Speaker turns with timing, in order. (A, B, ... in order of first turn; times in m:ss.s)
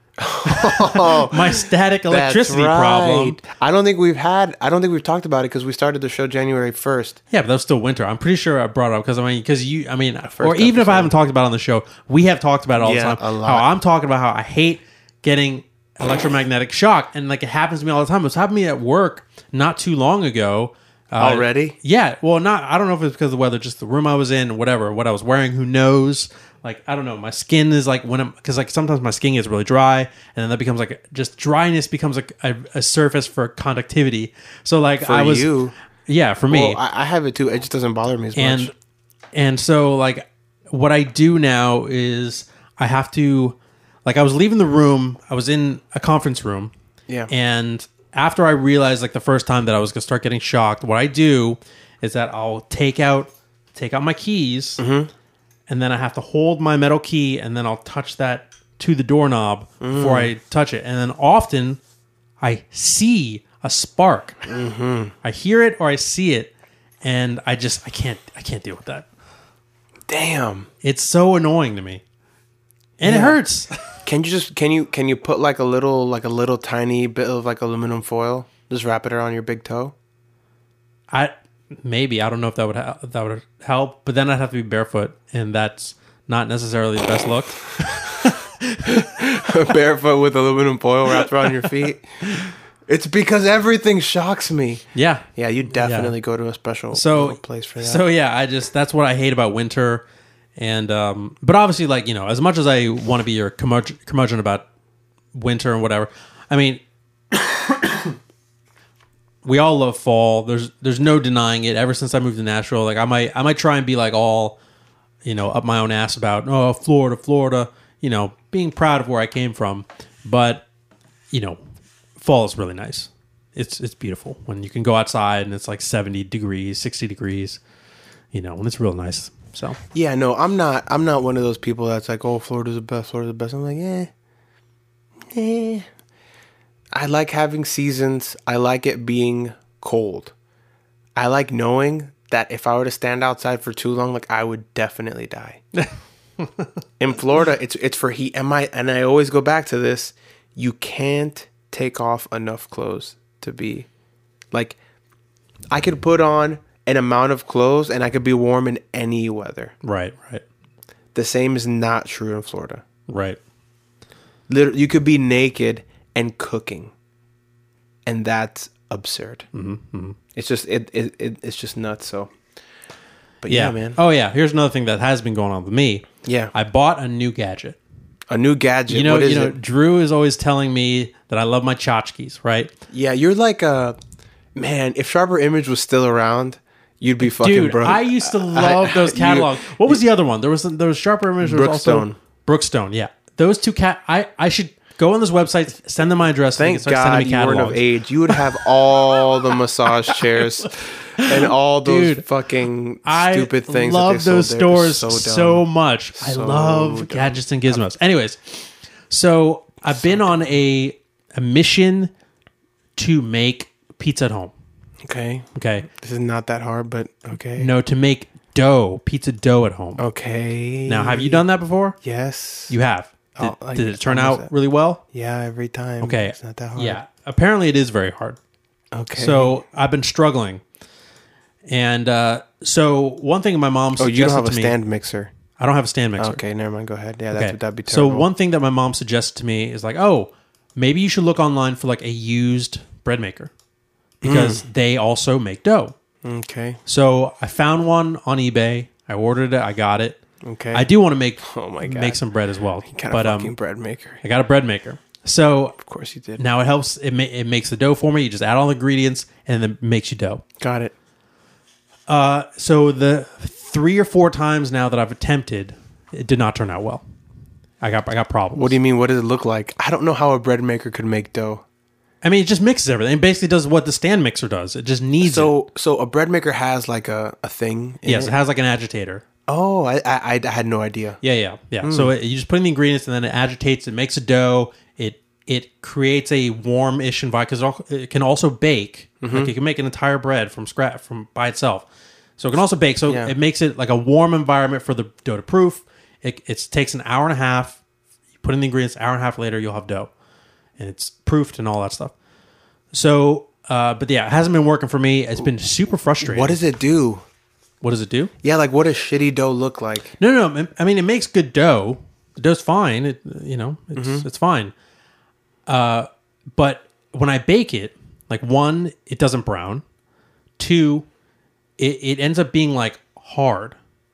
0:00.2-0:07.2 A
0:00.4-0:03.4 B
0:07.3-0:35.6 B
0:10.3-0:11.1 A
0:12.8-0:13.7 A
0:21.2-0:21.8 A
0:35.0-0:35.7 A
0:36.1-0:36.8 B
0:36.5-0:38.7 A
0:38.4-0:38.7 B
0:39.3-0:46.7 B
0:47.3-0:54.8 B
0:54.8-0:55.1 A
0:55.7-1:01.8 B
0:59.8-1:00.3 A
1:02.4-1:04.4 B
1:04.5-1:05.1 A
1:05.2-1:06.5 B
1:07.0-1:09.1 B
1:10.1-1:10.7 A
1:10.8-1:12.0 B
1:13.0-1:13.8 B
1:13.0-1:13.4 A
1:14.0-1:19.9 A
1:21.1-1:29.0 B
1:28.8-1:32.3 A
1:31.5-1:31.7 B
1:32.2-1:32.5 B
1:32.9-1:34.8 A
1:35.0-1:36.2 B
1:35.4-1:38.0 A
1:36.9-1:40.0 B
1:40.6-1:44.7 B
1:45.3-1:46.8 B
1:49.4-1:54.6 B
1:55.2-2:00.6 B
2:01.3-2:01.6 B
2:02.2-2:07.6 B
2:08.3-2:09.8 B
2:09.9-2:14.1 A
2:15.3-2:15.9 A
2:16.9-2:20.3 A
2:21.2-2:25.6 A
2:26.4-2:26.7 B
2:27.0-2:33.9 A
2:34.5-2:34.8 A
2:35.7-2:39.7 A
2:39.8-2:40.4 B
2:41.1-2:42.8 A
2:43.1-2:43.4 B
2:44.5-2:46.9 A
2:48.1-2:49.5 A
2:49.5-2:50.2 B
2:50.4-2:52.3 A
2:53.4-2:54.0 A
2:53.5-2:57.8 B
2:56.2-2:56.5 A
2:58.3-2:59.6 A
2:58.9-3:02.7 B
3:02.9-3:04.0 A
3:04.6-3:10.0 A
3:07.2-3:19.2 B
3:11.4-3:12.2 A
3:16.6-3:25.6 A
3:20.1-3:20.4 B
3:21.2-3:22.2 B
3:23.0-3:32.1 B
3:26.2-3:27.4 A
3:33.0-3:34.5 B
3:35.0-3:37.7 A
3:35.6-3:35.9 B
3:37.6-3:40.0 B
3:40.0-3:41.4 A
3:40.9-3:42.0 B
3:42.0-3:42.7 A
3:42.7-3:45.0 B
3:43.4-3:44.5 A
3:45.1-3:47.0 A
3:46.0-3:48.4 B
3:48.9-3:49.6 A
3:49.2-3:50.6 B
3:51.7-3:54.8 B
3:54.0-3:55.3 A
3:55.6-3:56.4 B
3:56.2-3:58.3 A
3:57.3-4:03.5 B
4:04.2-4:04.6 A
4:04.2-4:06.0 B
4:06.2-4:06.8 A
4:06.9-4:10.2 B
4:10.4-4:10.9 A
4:10.7-4:13.6 B
4:11.4-4:12.2 A
4:12.9-4:14.2 A
4:14.2-4:15.8 B
4:15.8-4:16.4 A
4:16.4-4:20.4 B
4:20.6-4:20.9 A
4:22.1-4:27.0 B
4:27.8-4:28.8 B
4:28.6-4:31.6 A
4:32.2-4:35.6 B
4:35.2-4:38.3 A
4:38.0-4:39.2 B
4:39.5-4:41.2 A
4:41.2-4:51.9 B
4:41.8-4:42.1 A
4:49.2-4:49.5 A
4:52.4-4:57.8 B
4:53.1-4:53.3 A
4:58.4-5:00.1 B
5:00.8-5:02.1 B
5:02.9-5:06.6 B
5:06.2-5:07.2 A
5:07.8-5:08.3 B
5:08.4-5:10.2 A
5:10.2-5:14.7 B
5:14.0-5:14.3 A
5:15.7-5:19.8 B
5:20.6-5:21.1 B
5:21.8-5:23.8 B